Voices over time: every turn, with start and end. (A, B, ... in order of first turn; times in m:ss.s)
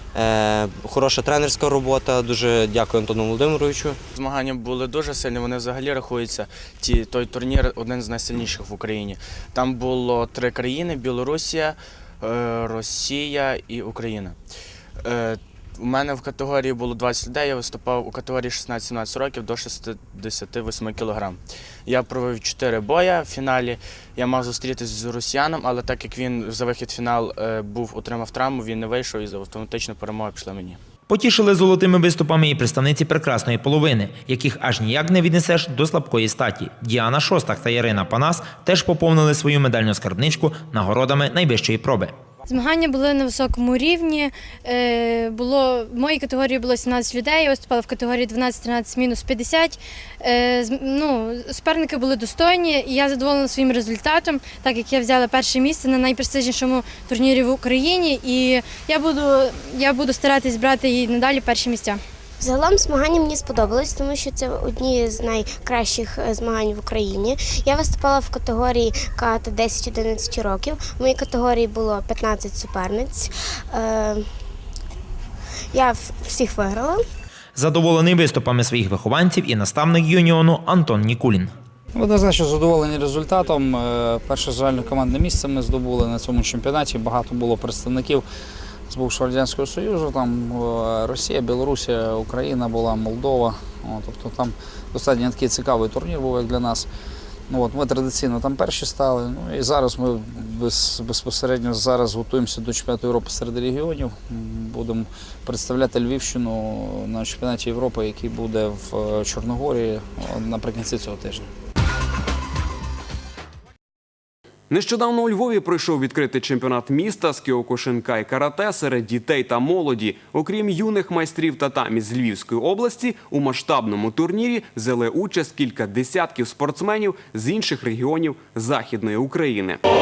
0:00.1-0:04.0 A
0:04.1-0:14.4 B
0:15.0-0:30.8 B
0:31.1-0:42.1 C
0:42.5-1:02.0 D
1:02.4-1:14.3 E
1:15.7-1:17.0 E
1:17.6-1:21.5 C
1:21.9-1:28.2 F
1:28.9-1:36.9 F
1:37.5-1:51.5 F
1:54.7-2:09.8 G